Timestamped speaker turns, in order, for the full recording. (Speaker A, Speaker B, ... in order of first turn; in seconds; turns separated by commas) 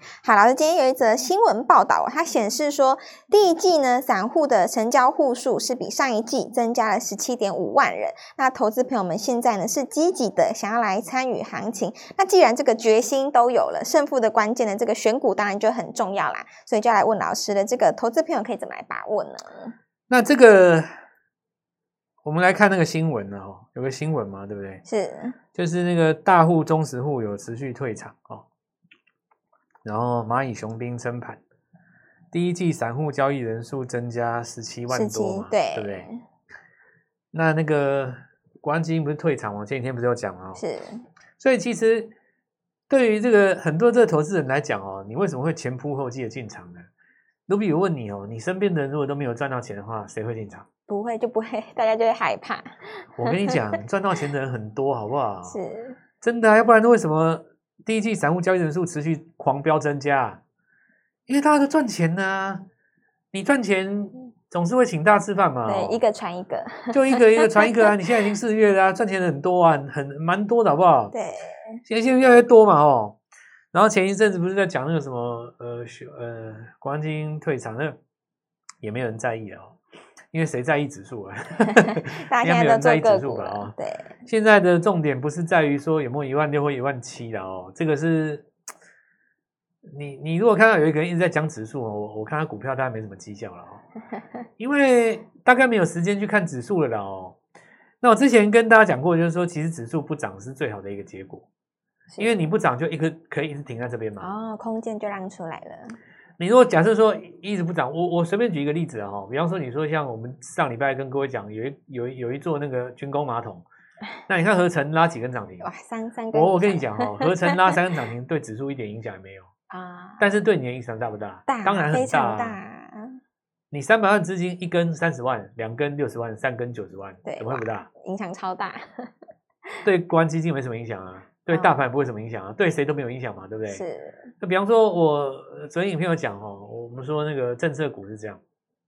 Speaker A: 0.2-19.7, Speaker B: 20.1-20.9, Speaker B: 22.2-24.8, Speaker A: 24.9-25.4, Speaker B: 25.5-28.4, Speaker B: 29.8-31.4, Speaker B: 32.3-36.1, Speaker A: 34.9-36.2, Speaker B: 37.3-40.6, Speaker A: 40.5-41.0, Speaker B: 41.4-42.1, Speaker B: 42.9-46.9, Speaker B: 47.5-50.6, Speaker A: 50.9-53.6, Speaker B: 53.2-55.6, Speaker A: 55.5-56.0, Speaker B: 56.2-60.4, Speaker B: 61.3-62.6, Speaker B: 63.3-66.0, Speaker A: 65.6-67.9, Speaker B: 66.9-71.1, Speaker A: 71.1-71.8, Speaker B: 71.8-73.2, Speaker B: 73.7-78.0, Speaker B: 78.8-79.8, Speaker B: 80.3-83.7, Speaker A: 82.1-84.1, Speaker B: 84.2-88.4, Speaker B: 89.9-93.8, Speaker B: 94.6-97.3, Speaker B: 98.0-101.4, Speaker A: 102.1-102.5, Speaker B: 102.2-104.3, Speaker A: 104.2-106.0, Speaker B: 106.4-113.6, Speaker B: 114.3-115.7, Speaker A: 115.6-117.7, Speaker B: 116.3-119.5, Speaker A: 119.7-120.3, Speaker B: 120.2-122.6, Speaker A: 121.5-123.2, Speaker B: 123.7-127.9, Speaker A: 127.2-129.1, Speaker B: 129.8-133.8, Speaker A: 131.5-131.8, Speaker A: 133.7-134.3, Speaker B: 134.4-138.4